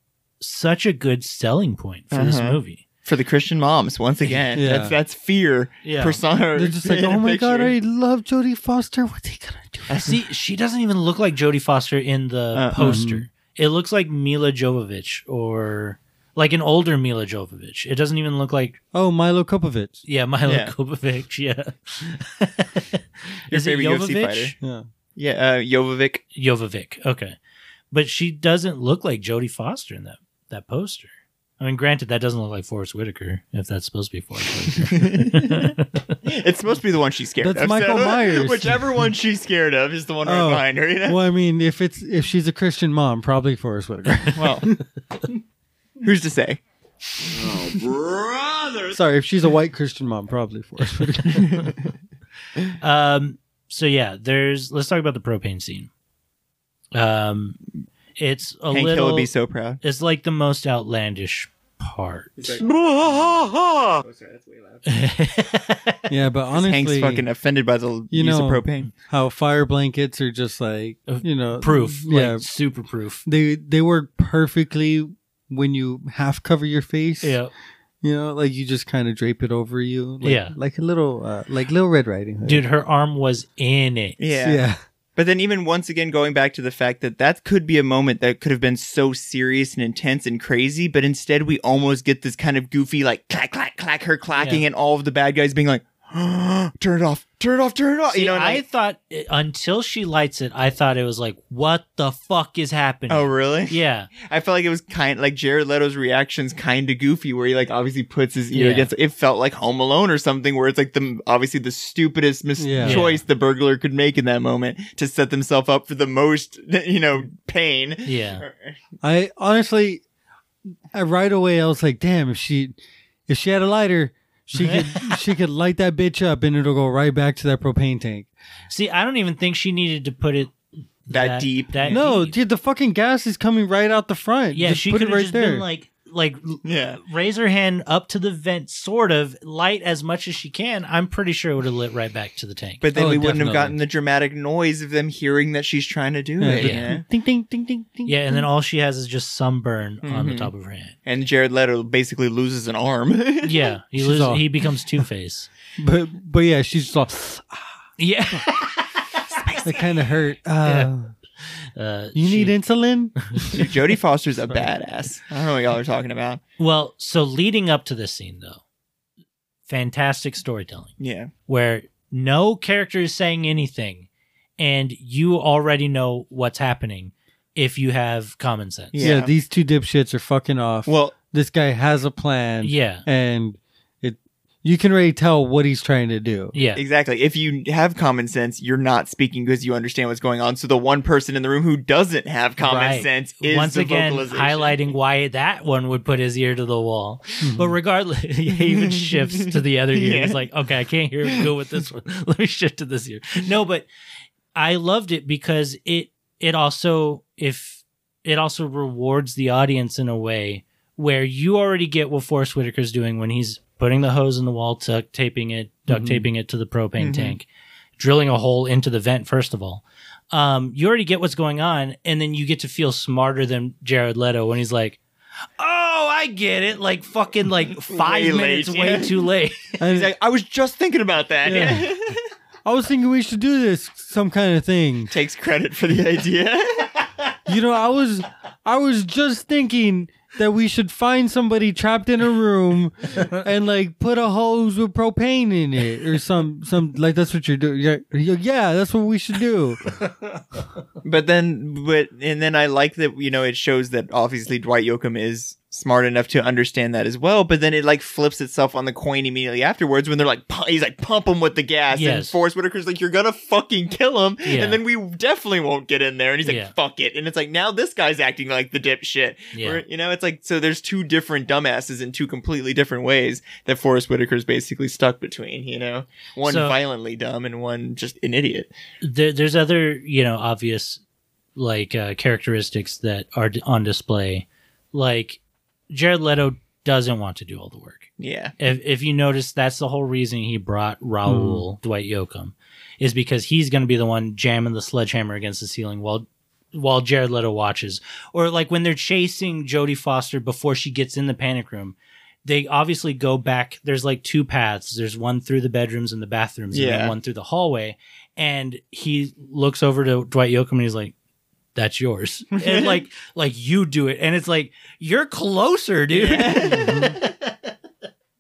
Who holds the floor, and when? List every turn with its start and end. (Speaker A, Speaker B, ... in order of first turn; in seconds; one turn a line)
Speaker A: 0.4-2.8
Speaker B: 2.1-7.7
Speaker C: 4.5-5.0
Speaker A: 5.8-6.2
Speaker C: 6.5-10.0
Speaker B: 9.9-10.2
Speaker A: 10.1-18.8
Speaker B: 12.6-13.0
Speaker C: 12.8-13.3
Speaker C: 18.9-20.0
Speaker A: 20.1-24.6
Speaker B: 20.4-20.7
Speaker B: 23.5-24.6
Speaker C: 24.6-24.9
Speaker B: 25.2-26.2
Speaker A: 26.3-27.4
Speaker A: 27.9-36.2
Speaker B: 35.0-35.7
Speaker B: 36.3-41.2
Speaker C: 37.4-39.1
Speaker C: 40.2-44.8
Speaker B: 44.3-44.7
Speaker B: 46.0-46.6
Speaker C: 48.9-51.7
Speaker A: 52.8-55.9
Speaker A: 56.9-57.6
Speaker A: 58.2-62.5
Speaker B: 58.7-59.8
Speaker B: 62.4-63.3
Speaker B: 64.0-64.8
Speaker A: 64.9-66.0
Speaker C: 66.1-67.3
Speaker B: 66.5-68.9
Speaker C: 68.1-72.5
Speaker A: 71.1-73.2
Speaker C: 73.2-77.4
Speaker A: 77.2-77.5
Speaker C: 78.0-82.7
Speaker A: 80.2-80.6
Speaker A: 82.5-84.2
Speaker B: 84.2-84.6
Speaker C: 84.4-84.8
Speaker B: 85.2-98.6
Speaker A: 94.4-94.6
Speaker A: 98.1-104.1
Speaker B: 103.1-118.8
Speaker A: 108.5-108.9
Speaker C: 112.6-113.1
Speaker A: 112.8-113.2
Speaker A: 118.0-118.4
Speaker C: 119.0-120.0
Speaker C: 120.9-122.8
Speaker C: 123.3-128.3
Speaker A: 124.5-125.2
Speaker A: 128.7-132.4
Speaker B: 131.1-132.0
Speaker C: 131.9-135.7
Speaker A: 134.5-142.8
Speaker B: 136.7-137.0
Speaker B: 142.8-147.0
Speaker C: 142.9-143.8
Speaker C: 146.4-148.5
Speaker A: 146.6-146.9
Speaker A: 148.1-151.0
Speaker B: 150.0-150.5
Speaker B: 151.1-153.7
Speaker A: 153.4-155.5
Speaker C: 154.0-154.5
Speaker C: 155.8-157.8
Speaker A: 158.0-159.3
Speaker C: 159.6-161.1
Speaker A: 160.6-160.9
Speaker A: 161.8-162.6
Speaker C: 162.2-163.2
Speaker B: 163.5-166.4
Speaker A: 166.6-168.6
Speaker A: 169.7-171.0
Speaker B: 171.0-171.3
Speaker A: 171.5-174.1
Speaker A: 174.6-179.1
Speaker B: 178.9-179.3
Speaker C: 179.0-186.6
Speaker B: 180.9-181.2
Speaker A: 182.6-183.1
Speaker A: 186.5-186.8
Speaker B: 186.8-194.8
Speaker A: 192.6-203.9
Speaker C: 197.4-197.8
Speaker B: 198.6-200.5
Speaker A: 204.6-217.5
Speaker C: 215.9-216.3
Speaker B: 217.0-217.4
Speaker A: 218.0-225.0
Speaker A: 225.6-229.8
Speaker B: 227.9-229.2
Speaker C: 229.8-230.1
Speaker B: 229.9-232.2
Speaker C: 231.4-231.9
Speaker C: 232.7-235.1
Speaker B: 235.1-236.9
Speaker C: 237.5-249.8
Speaker B: 251.0-278.7
Speaker A: 261.9-262.4
Speaker A: 264.4-264.8
Speaker A: 266.4-266.7
Speaker A: 269.5-269.8
Speaker A: 276.4-276.8
Speaker A: 279.0-281.0
Speaker A: 281.6-285.4
Speaker A: 285.9-311.1
Speaker B: 288.2-288.6
Speaker C: 291.3-291.6
Speaker B: 306.7-307.1
Speaker A: 311.8-317.3
Speaker B: 312.6-313.0
Speaker B: 316.1-317.2
Speaker C: 316.6-317.2